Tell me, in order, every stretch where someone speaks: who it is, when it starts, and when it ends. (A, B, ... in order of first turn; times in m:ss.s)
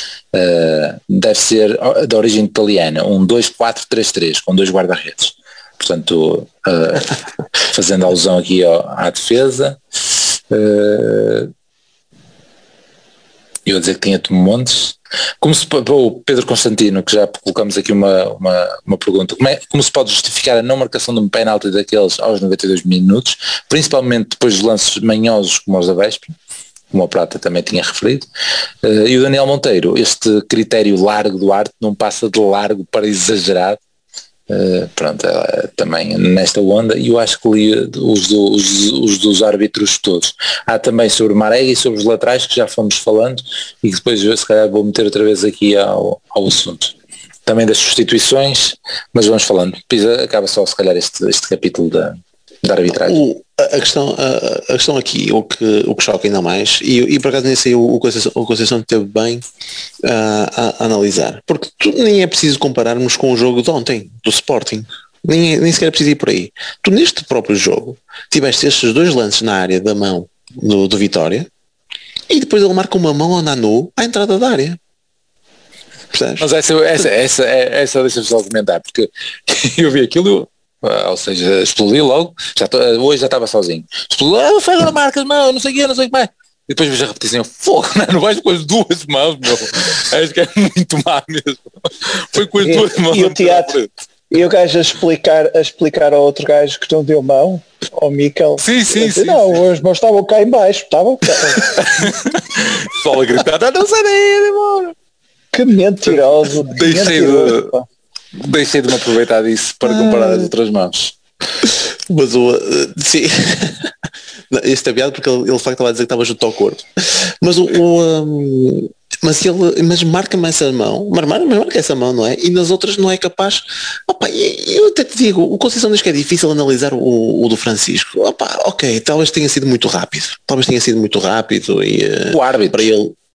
0:00.3-0:07.2 A
0:07.7-0:09.8 A
0:10.5-0:11.5 A
0:13.7-0:26.4 A
0:26.9-0:28.3 A
0:28.8-0:33.8 A
0:34.5-0:46.9 A
0:47.5-0:53.2 A
0:52.9-0:59.4 B
1:00.0-1:11.5 B
1:12.3-1:14.8 B
1:16.1-1:16.5 B
1:16.4-1:33.9 A
1:32.6-1:33.8 C
1:34.3-1:41.8 C
1:38.6-1:39.6 A
1:41.5-1:44.9 A
1:45.5-1:47.8 C
1:46.1-1:47.7 A
1:48.4-1:51.2 A
1:49.8-1:50.5 B
1:51.6-1:53.9 B
1:54.5-2:13.2 B
2:12.3-2:12.9 A